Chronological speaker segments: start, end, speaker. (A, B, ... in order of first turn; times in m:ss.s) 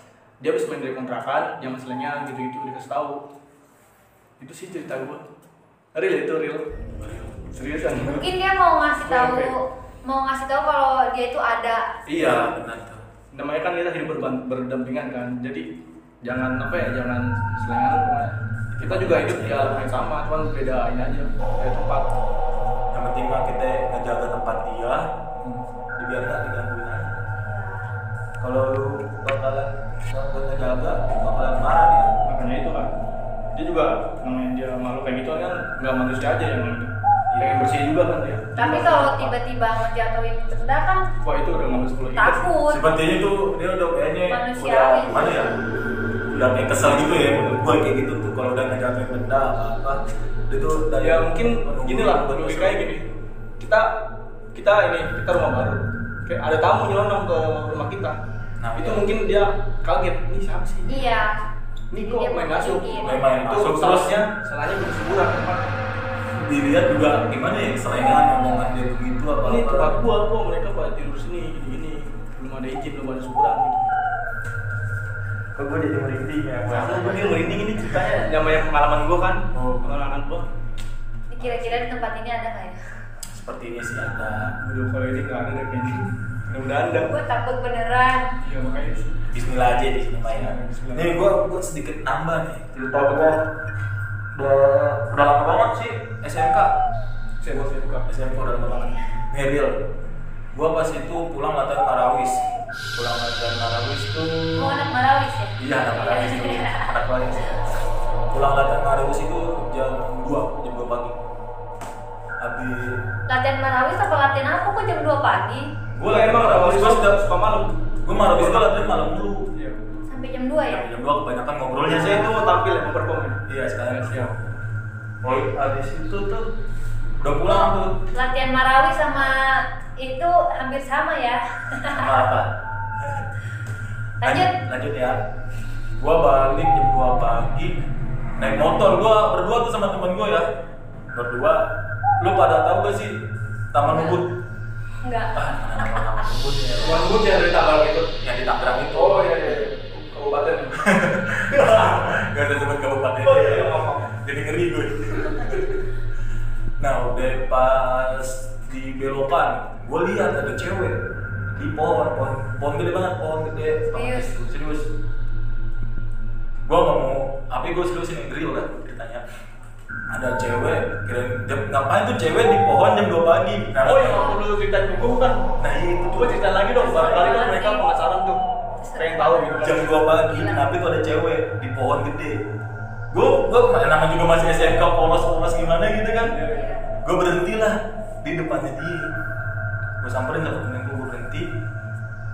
0:00.4-0:03.2 A
0:04.4-0:05.2 A
0:06.0-0:06.6 A
0:07.0-0:07.4 B
0:07.5-0:08.3 A
0:08.1-0:11.9 C
0:09.0-0:09.5 A
0:12.1-0:12.5 A
0:12.2-0:13.0 B
0:13.3-0:15.7 A
0:16.2-0:22.1 A
0:18.7-0:19.9 B
0:22.9-0:25.1 B
0:25.4-0:25.6 A
0:26.0-0:27.2 B
0:27.3-0:27.9 C
0:28.4-0:32.1 B
0:32.2-0:32.9 A
0:33.5-0:39.4 A
0:37.3-0:37.7 B
0:38.6-0:41.1 C
0:41.2-0:42.5 A
0:42.1-0:42.9 C
0:42.7-0:45.5 B
0:44.3-0:45.5 C
0:46.3-0:52.8 B
0:46.3-0:47.7 A
0:51.0-0:53.0 A
0:53.6-0:53.9 A
0:54.5-0:58.2 A
0:58.6-0:59.0 B
0:58.8-1:01.1 A
1:00.9-1:01.3 C
1:01.9-1:05.8 A
1:02.0-1:03.2 C
1:03.0-1:04.2 B
1:06.3-1:10.0 B
1:09.4-1:13.9 A
1:15.6-1:18.3 B
1:16.7-1:20.4 A
1:19.6-1:19.9 B
1:21.3-1:22.8 C
1:23.3-1:24.6 B
1:24.6-1:27.1 A
1:27.1-1:28.3 C
1:28.4-1:29.2 A
1:29.3-1:33.4 B
1:30.3-1:31.1 A
1:32.9-1:33.4 A
1:34.3-1:36.8 B
1:37.4-1:38.4 A
1:37.5-1:39.8 B
1:38.7-1:39.0 C
1:40.5-1:44.9 B
1:44.6-1:46.9 C
1:45.6-1:47.7 B
1:48.3-1:51.2 B
1:52.4-1:53.0 B
1:53.3-1:55.7 C
1:55.9-1:57.2 B
1:56.0-1:58.8 A
1:58.0-1:59.4 B
2:00.1-2:00.8 C
2:00.7-2:02.3 B
2:01.8-2:04.3 A
2:03.5-2:04.4 B
2:05.2-2:06.5 B
2:07.2-2:08.0 B
2:07.4-2:12.2 C
2:11.9-2:13.3 B
2:14.2-2:14.5 C
2:14.2-2:15.2 B
2:16.0-2:17.8 B
2:18.4-2:20.4 B
2:21.1-2:21.6 B
2:22.2-2:23.2 B
2:23.7-2:24.3 B
2:23.8-2:24.2 C
2:25.0-2:26.3 C
2:25.4-2:27.1 B
2:26.8-2:28.2 A
2:28.2-2:29.3 B
2:28.9-2:32.2 A
2:30.8-2:35.8 B
2:33.2-2:34.1 A
2:36.8-2:41.0 B
2:41.5-2:44.9 B
2:43.9-2:44.4 C
2:46.7-2:49.2 B
2:50.1-2:54.3 B
2:53.8-2:55.4 A
2:54.1-2:54.4 C
2:55.6-2:57.4 B
2:56.2-2:58.4 A
2:56.8-2:57.9 C
2:58.8-3:00.7 C
2:59.0-2:59.9 A
2:59.6-3:02.4 B
3:03.1-3:06.4 B
3:06.2-3:06.7 A
3:06.5-3:06.9 C
3:07.0-3:09.1 B
3:10.0-3:11.5 B